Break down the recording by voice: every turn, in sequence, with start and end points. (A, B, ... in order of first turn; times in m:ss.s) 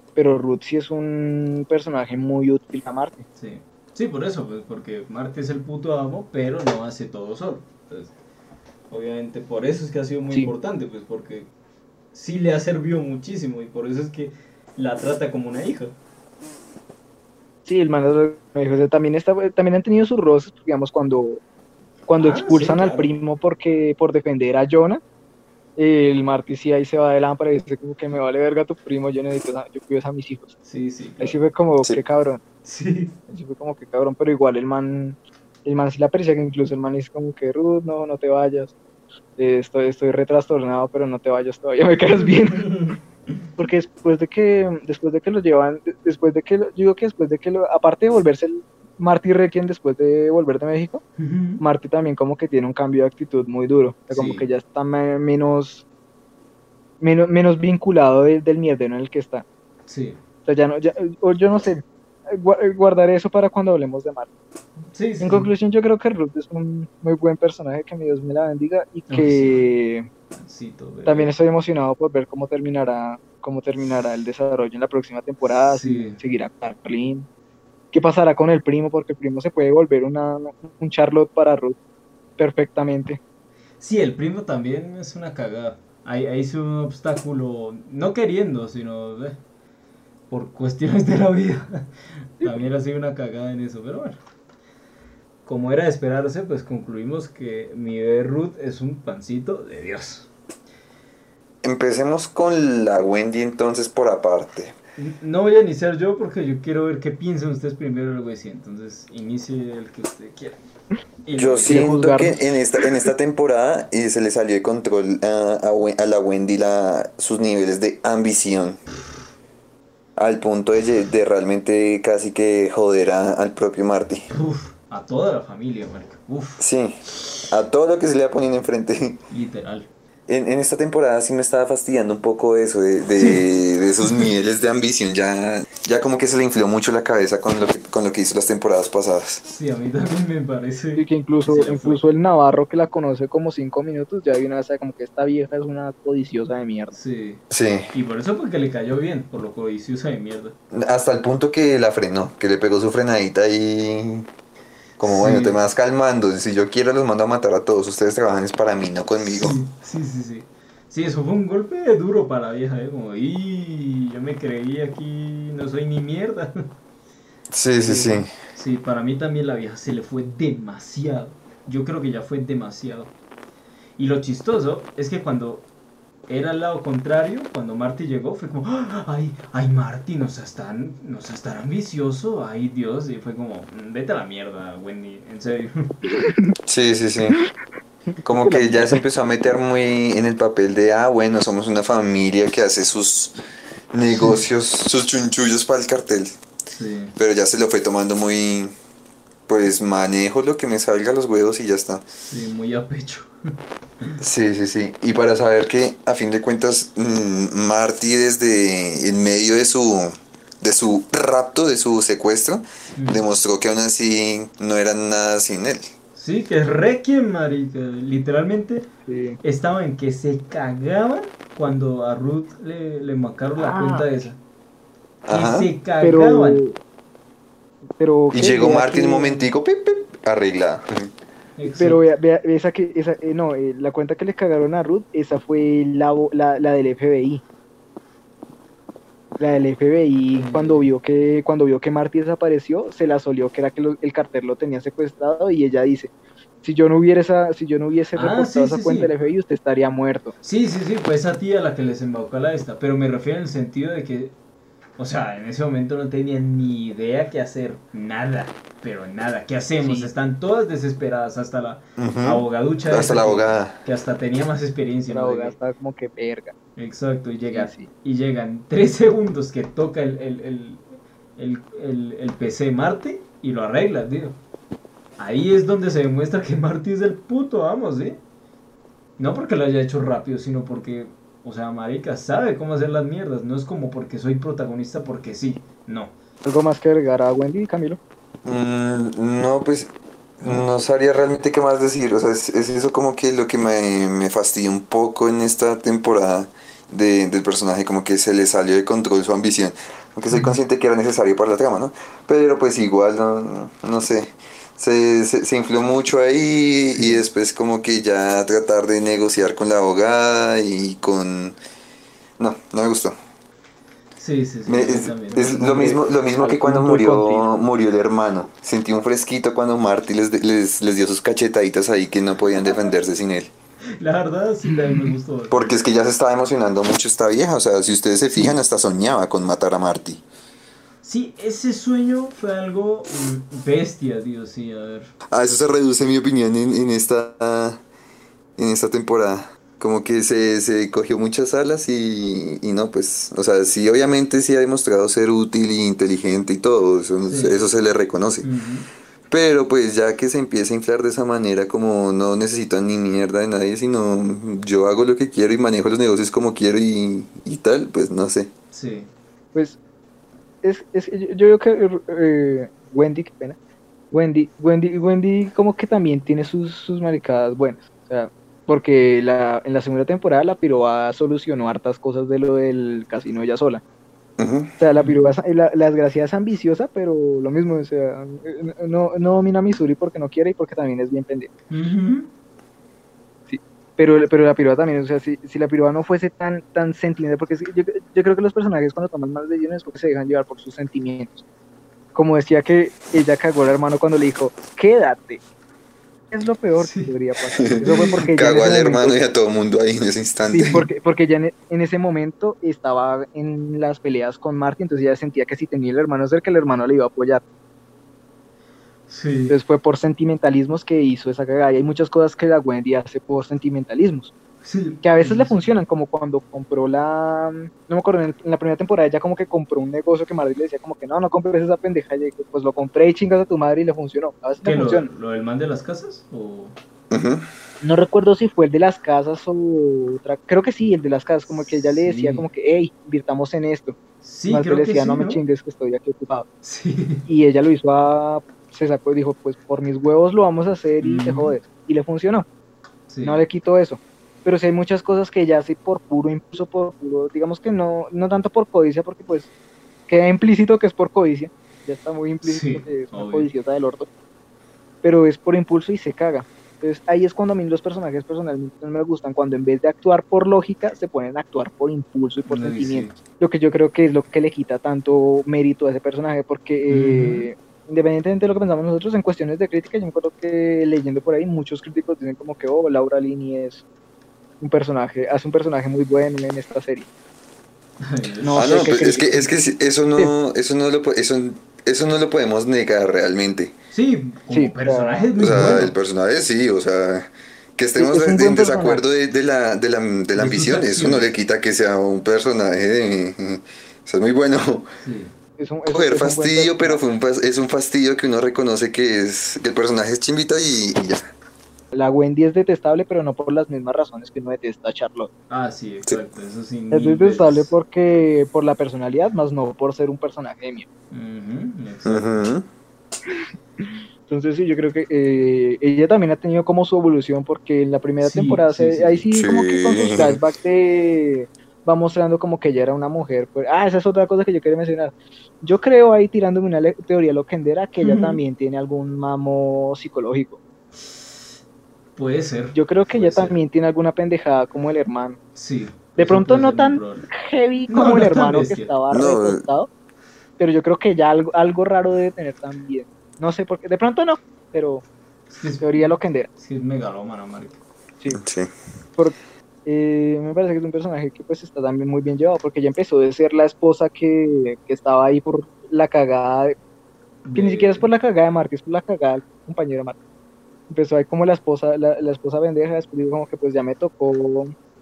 0:00.2-0:03.2 A
0:03.4-0:08.1 B
0:08.9-0:11.5 B
0:12.1-0:15.9 B
0:17.7-0:21.4 A
0:22.1-0:25.0 A
0:22.2-0:23.1 B
0:25.8-0:30.5 A
0:30.6-0:31.4 B
0:31.2-0:32.4 A
0:32.6-0:33.2 B
0:33.3-0:38.8 A
0:39.4-0:42.9 A
0:42.6-0:43.0 B
0:43.6-0:51.0 A
0:51.2-0:51.6 B
0:51.6-0:55.8 A
0:54.1-0:54.5 B
0:57.0-0:59.4 A
0:59.9-1:00.2 B
1:00.5-1:04.3 A
1:04.9-1:05.5 B
1:05.2-1:10.1 A
1:09.1-1:09.7 B
1:10.4-1:11.3 B
1:11.1-1:17.3 A
1:15.4-1:16.2 B
1:17.9-1:21.8 A
1:22.4-1:23.2 A
1:23.8-1:29.4 B
1:30.3-1:31.9 B
1:32.4-1:34.2 B
1:35.5-1:40.3 B
1:41.6-1:44.8 C
1:45.0-1:50.6 B
1:51.2-1:51.9 B
1:51.4-1:58.8 C
1:51.7-1:52.4 A
2:00.2-2:04.3 C
2:04.3-2:06.6 B
2:06.6-2:09.2 C
2:09.3-2:09.9 B
2:10.3-2:19.4 C
2:13.2-2:13.4 B
2:14.0-2:14.3 B
2:19.5-2:22.0 B
2:21.0-2:27.0 A
2:26.9-2:27.4 B
2:27.5-2:27.9 C
2:27.9-2:30.6 B
2:30.7-2:34.3 C
2:35.0-2:39.6 C
2:35.0-2:35.6 B
2:39.2-2:46.7 B
2:47.5-2:48.3 C
2:47.9-2:53.1 B
2:54.0-2:55.6 B
2:56.3-3:06.0 B
3:06.1-3:06.5 A
3:06.7-3:07.4 C
3:08.2-3:13.3 C
3:08.4-3:09.0 A
3:13.9-3:16.4 C
3:14.2-3:14.4 B
3:16.7-3:17.2 B
3:17.2-3:18.7 C
3:19.5-3:22.0 C
3:22.2-3:23.3 B
3:24.2-3:35.9 C
3:33.0-3:33.2 B
3:36.2-3:38.9 B
3:39.1-3:39.4 A
3:39.4-3:44.4 B
3:43.6-3:44.1 A
3:45.3-3:45.7 C
3:45.3-3:46.6 B
3:46.0-3:46.8 A
3:48.0-3:49.5 A
3:48.3-3:51.1 C
3:51.6-3:52.0 B
3:51.7-3:57.4 A
3:59.4-4:06.1 A
4:00.4-4:00.8 B
4:06.6-4:10.3 A
4:08.2-4:09.1 B
4:10.4-4:14.4 B
4:15.0-4:25.6 B
4:19.8-4:20.1 A
4:22.0-4:23.8 C
4:25.1-4:26.5 A
4:26.8-4:30.9 B
4:27.5-4:27.9 A
4:31.4-4:34.4 B
4:35.2-4:38.2 B
4:39.2-4:46.1 B
4:46.4-4:48.0 A
4:48.4-5:11.6 C
5:00.3-5:00.6 B
5:06.9-5:07.2 B
5:12.4-5:13.2 C
5:14.2-5:15.8 B
5:14.7-5:23.5 C
5:15.4-5:17.5 A
5:24.0-5:25.6 B
5:24.7-5:25.0 A
5:25.5-5:30.2 C
5:31.0-5:35.1 B
5:35.3-5:37.8 C
5:38.6-5:48.5 C
5:47.3-5:47.6 B
5:48.4-5:48.9 B
5:49.3-5:58.5 C
5:58.7-5:59.1 B
6:00.6-6:03.6 A
6:04.1-6:13.8 A
6:14.4-6:14.8 C
6:14.8-6:21.5 A
6:15.0-6:15.2 B
6:21.7-6:22.3 B
6:23.5-6:31.4 A
6:32.2-6:35.4 A
6:36.3-6:39.2 A
6:36.8-6:37.1 B
6:37.8-6:38.0 B
6:38.2-6:40.9 C
6:40.5-6:47.4 A
6:49.1-6:49.6 B
6:49.5-6:54.3 A
6:54.6-6:55.7 B
6:55.0-7:05.1 A
7:04.6-7:06.8 B
7:07.1-7:07.5 C
7:07.8-7:14.0 A
7:11.9-7:12.5 B
7:14.2-7:15.4 B
7:14.5-7:16.5 A
7:16.6-7:17.2 B
7:17.3-7:22.5 A
7:21.0-7:21.6 B
7:23.1-7:23.4 B
7:23.2-7:29.5 A
7:30.1-7:34.1 A
7:32.4-7:33.5 B
7:35.0-7:53.8 A
7:42.5-7:43.2 B
7:46.9-7:47.5 B
7:54.6-7:57.1 A
7:58.0-7:59.1 B
7:58.4-8:00.3 A
7:58.6-8:03.7 C
8:03.9-8:06.0 B
8:04.5-8:05.8 A
8:05.4-8:14.9 C
8:08.0-8:09.0 A
8:10.4-8:11.3 B
8:15.0-8:15.3 B
8:15.6-8:17.0 A
8:15.9-8:21.3 C
8:21.9-8:25.3 A
8:25.5-8:27.7 B
8:26.9-8:30.9 A
8:31.1-8:32.5 B
8:32.0-8:32.7 C
8:33.3-8:50.6 A
8:38.2-8:39.3 B
8:39.4-8:40.4 C
8:48.0-8:48.4 B
8:52.2-8:53.6 B
8:52.7-8:55.4 A
8:55.6-8:57.3 B
8:56.2-8:59.9 A
8:57.9-8:58.9 B
8:59.1-8:59.6 C
9:00.6-9:05.0 A
9:05.5-9:07.8 B
9:05.8-9:06.5 A
9:08.3-9:08.7 C
9:09.2-9:16.8 A
9:17.4-9:18.1 B
9:17.5-9:20.2 A
9:20.9-9:24.7 A